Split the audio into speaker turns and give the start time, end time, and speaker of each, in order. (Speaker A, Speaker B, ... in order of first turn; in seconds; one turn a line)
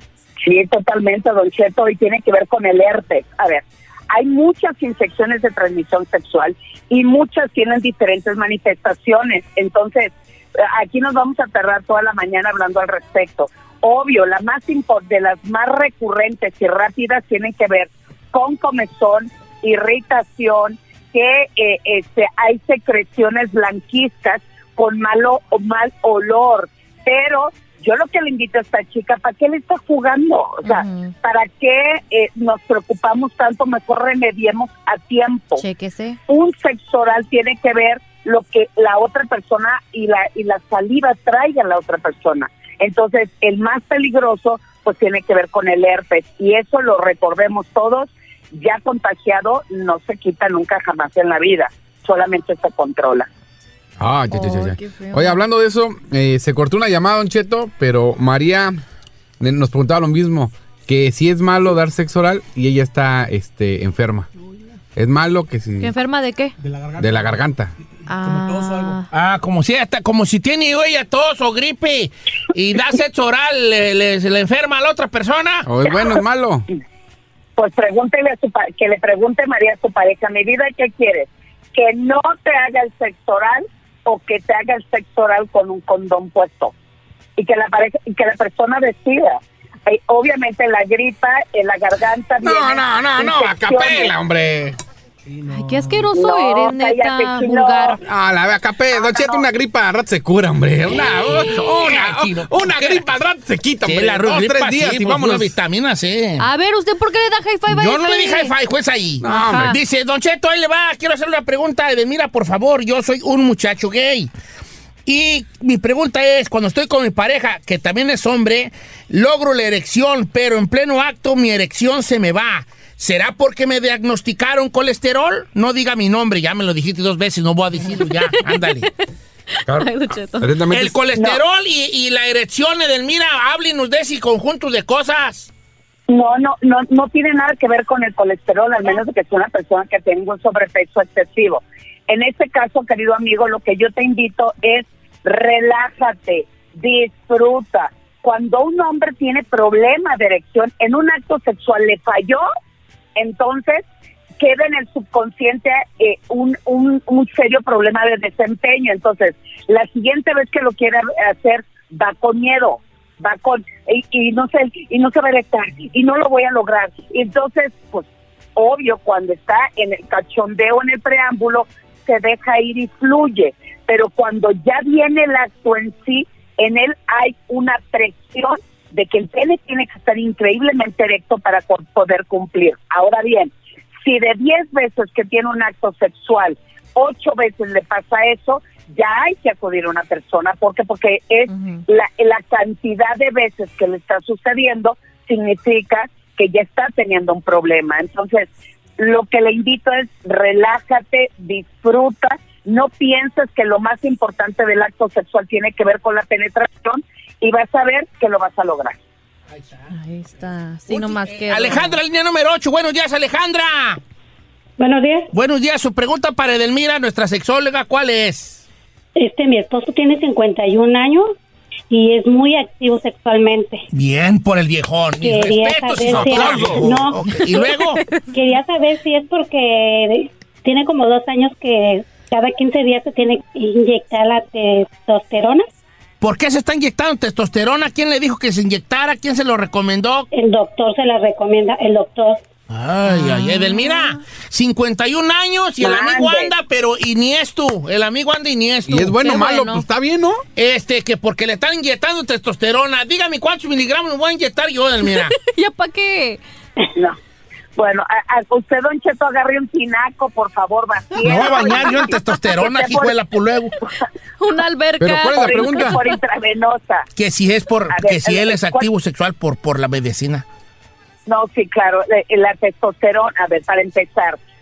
Speaker A: 0.4-35.6
Speaker A: 36.3-53.3
Speaker B: 54.0-58.8
Speaker C: 54.4-55.0
Speaker B: 59.4-64.3
Speaker B: 65.0-65.9
Speaker C: 65.8-66.5
Speaker B: 67.0-67.7
Speaker C: 68.1-69.0
Speaker D: 69.1-75.7
Speaker B: 75.7-76.7
Speaker A: 77.6-86.7
Speaker A: 87.4-94.1
Speaker B: 92.4-94.8
Speaker C: 95.5-98.0
Speaker A: 96.1-98.0
Speaker B: 98.0-105.5
Speaker A: 98.9-99.5
Speaker D: 100.9-103.0
Speaker D: 103.8-106.5
Speaker C: 106.4-108.5
Speaker D: 107.7-114.3
Speaker B: 109.2-109.7
Speaker C: 109.2-109.7
Speaker D: 115.0-128.9
Speaker C: 127.9-128.9
Speaker C: 129.6-130.5
Speaker B: 129.7-130.9
Speaker D: 130.7-135.5
Speaker A: 136.1-152.4
Speaker A: 153.2-153.8
Speaker A: 154.4-183.5
Speaker A: 184.0-209.0
Speaker D: 209.5-209.9
Speaker C: 210.0-211.9
Speaker D: 210.9-214.0
Speaker E: 214.8-215.3
Speaker D: 215.3-218.6
Speaker E: 219.2-221.3
Speaker E: 221.9-223.8
Speaker D: 223.9-228.0
Speaker E: 225.2-227.2
Speaker B: 226.1-226.8
Speaker E: 228.3-235.7
Speaker D: 236.2-240.3
Speaker E: 240.3-242.4
Speaker D: 242.7-249.8
Speaker C: 243.4-243.8
Speaker B: 248.9-250.4
Speaker D: 250.6-255.3
Speaker C: 255.3-256.4
Speaker A: 257.8-263.1
Speaker D: 261.2-263.7
Speaker C: 264.4-266.0
Speaker B: 265.0-266.0
Speaker A: 265.3-267.1
Speaker D: 267.1-270.4
Speaker A: 267.9-268.8
Speaker A: 271.3-274.4